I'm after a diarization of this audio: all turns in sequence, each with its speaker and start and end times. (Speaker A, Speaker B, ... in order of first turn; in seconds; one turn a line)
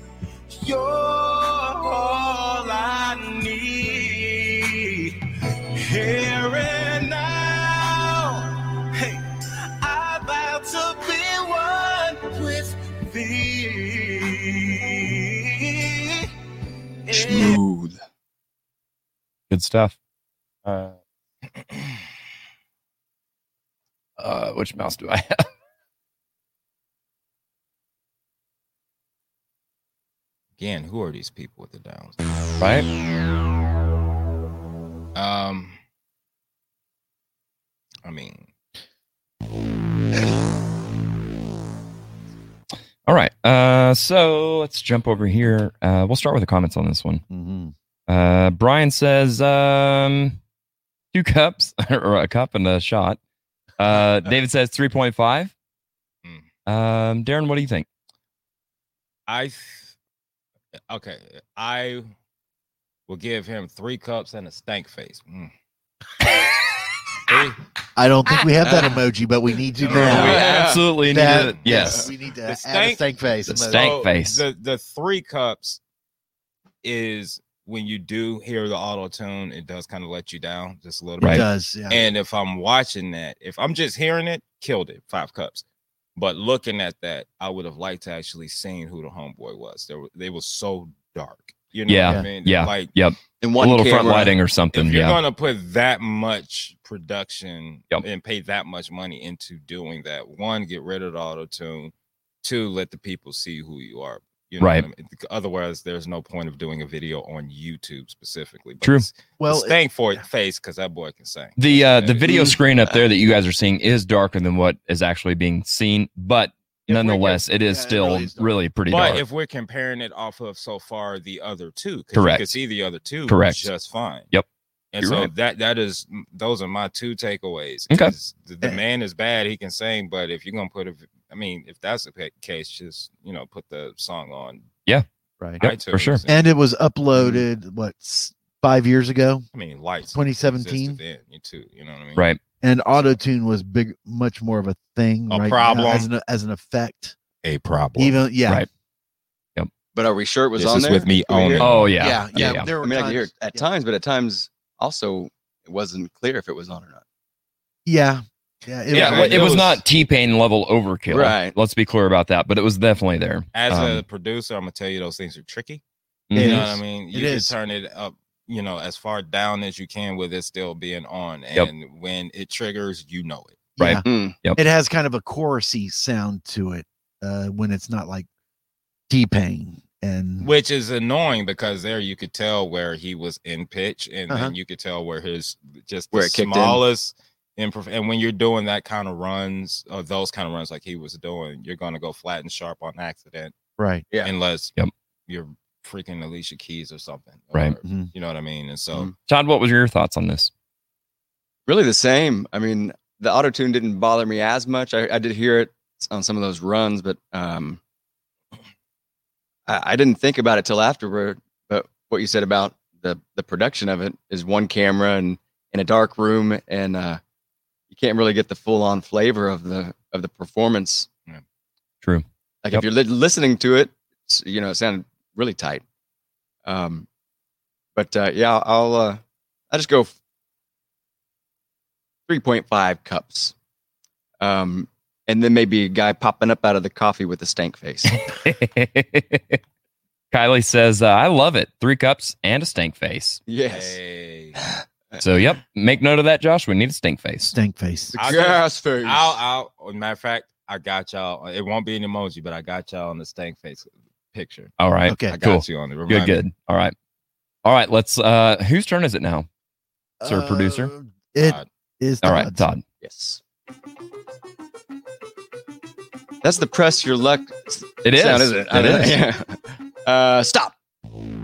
Speaker A: 0.6-5.2
Speaker A: 5.8-9.2
Speaker A: 9.8-16.3
Speaker A: 17.1-17.6
Speaker B: 17.1-18.0
Speaker C: 19.5-20.0
Speaker C: 20.6-20.9
Speaker C: 24.2-25.4
Speaker D: 30.6-32.2
Speaker C: 32.6-32.9
Speaker D: 35.1-35.8
Speaker D: 38.0-38.5
Speaker C: 43.0-47.2
Speaker E: 47.3-47.7
Speaker C: 48.1-50.4
Speaker C: 51.1-53.2
Speaker C: 53.8-55.5
Speaker C: 56.7-57.9
Speaker D: 59.3-59.9
Speaker D: 60.9-62.1
Speaker D: 63.1-65.5
Speaker D: 67.3-67.6
Speaker E: 68.0-70.5
Speaker B: 68.6-69.0
Speaker C: 69.9-72.1
Speaker B: 69.9-70.9
Speaker E: 71.0-74.0
Speaker D: 71.3-71.7
Speaker B: 71.7-72.1
Speaker D: 72.5-73.0
Speaker C: 73.5-74.4
Speaker D: 73.7-75.8
Speaker D: 76.8-85.6
Speaker C: 81.2-81.5
Speaker E: 81.2-82.1
Speaker D: 86.2-92.9
Speaker C: 91.9-95.2
Speaker B: 93.4-94.3
Speaker D: 94.7-112.4
Speaker C: 104.6-104.9
Speaker C: 108.8-109.1
Speaker E: 109.4-110.2
Speaker C: 111.6-119.2
Speaker E: 116.9-118.6
Speaker D: 118.9-124.3
Speaker C: 122.1-122.6
Speaker C: 123.3-123.7
Speaker D: 124.9-134.7
Speaker C: 125.0-125.3
Speaker C: 135.6-136.2
Speaker D: 135.6-136.5
Speaker E: 136.3-139.5
Speaker D: 139.5-142.3
Speaker E: 140.1-141.0
Speaker E: 142.6-147.2
Speaker D: 145.3-146.1
Speaker D: 147.4-148.2
Speaker E: 148.0-148.7
Speaker B: 149.9-151.8
Speaker D: 150.6-152.0
Speaker C: 151.6-152.7
Speaker E: 152.0-153.7
Speaker B: 152.8-157.0
Speaker E: 157.9-159.6
Speaker D: 158.9-159.8
Speaker C: 158.9-164.0
Speaker B: 161.1-161.6
Speaker D: 163.5-165.8
Speaker C: 166.3-166.7
Speaker D: 166.3-173.8
Speaker E: 166.3-167.6
Speaker E: 173.8-178.3
Speaker C: 173.8-174.6
Speaker B: 174.1-174.4
Speaker E: 179.1-180.5
Speaker D: 180.4-193.5
Speaker E: 184.3-184.5
Speaker B: 186.1-186.8
Speaker E: 193.8-194.1
Speaker D: 194.2-194.8
Speaker D: 195.3-199.1
Speaker E: 197.8-198.1
Speaker C: 199.3-200.5
Speaker B: 201.7-207.8
Speaker B: 209.7-217.2
Speaker B: 217.9-221.1
Speaker C: 222.0-222.9
Speaker B: 222.6-225.8
Speaker B: 226.7-227.1
Speaker B: 228.0-230.1
Speaker B: 232.3-233.5
Speaker B: 234.4-238.2
Speaker C: 238.1-239.6
Speaker C: 240.3-243.4
Speaker B: 243.5-244.0
Speaker D: 243.7-244.6
Speaker B: 244.6-245.2
Speaker C: 245.2-247.6
Speaker E: 247.5-248.2
Speaker D: 248.2-254.7
Speaker B: 248.2-249.4
Speaker C: 254.8-256.9
Speaker E: 255.1-255.4
Speaker D: 255.3-256.4
Speaker C: 257.6-259.5
Speaker E: 260.2-262.7
Speaker C: 260.2-260.9
Speaker D: 261.4-261.7
Speaker C: 262.2-262.8
Speaker B: 263.0-263.4
Speaker B: 266.4-270.7
Speaker C: 268.1-269.2